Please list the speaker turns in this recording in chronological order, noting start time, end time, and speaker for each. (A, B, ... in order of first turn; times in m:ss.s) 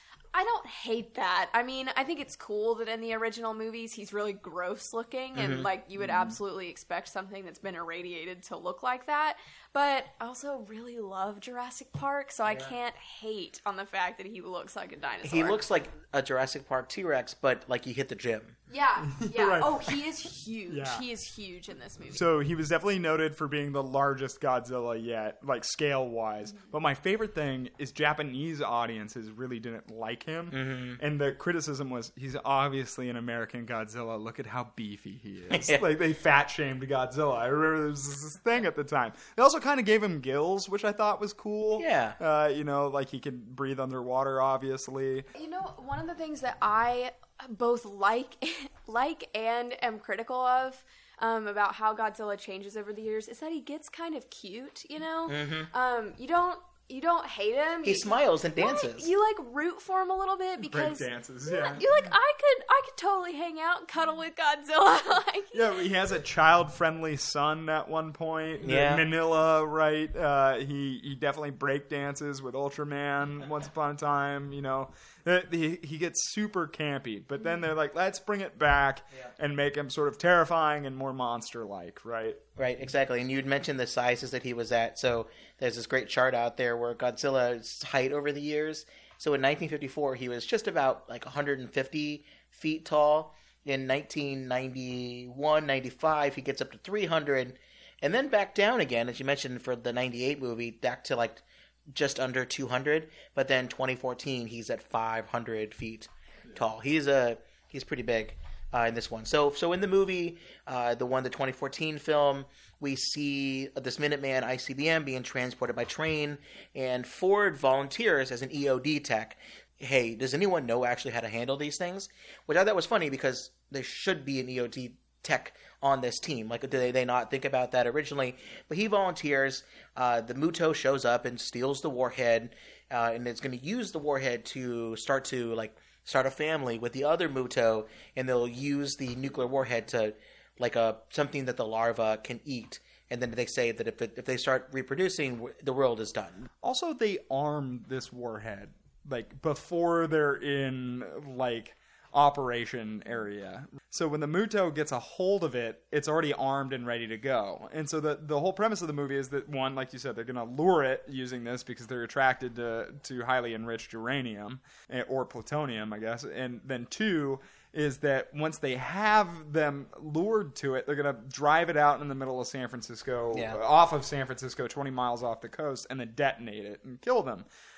0:00.3-0:15.6 A
0:05.4-0:06.3 B
0:15.2-0:18.6 B
0:18.7-0:22.2 A
0:19.0-0:20.0 C
0:20.7-0:21.0 C
0:22.1-0:45.3 C
0:30.5-0:31.0 B
0:35.5-0:35.8 B
0:41.8-0:42.2 B
0:45.4-1:05.7 A
0:55.3-0:55.7 B
0:57.8-0:59.1 B
1:00.7-1:01.8 C
1:05.5-1:22.4 C
1:08.6-1:09.0 B
1:22.6-2:26.5 B
2:26.6-2:57.4 C
2:53.3-2:53.6 B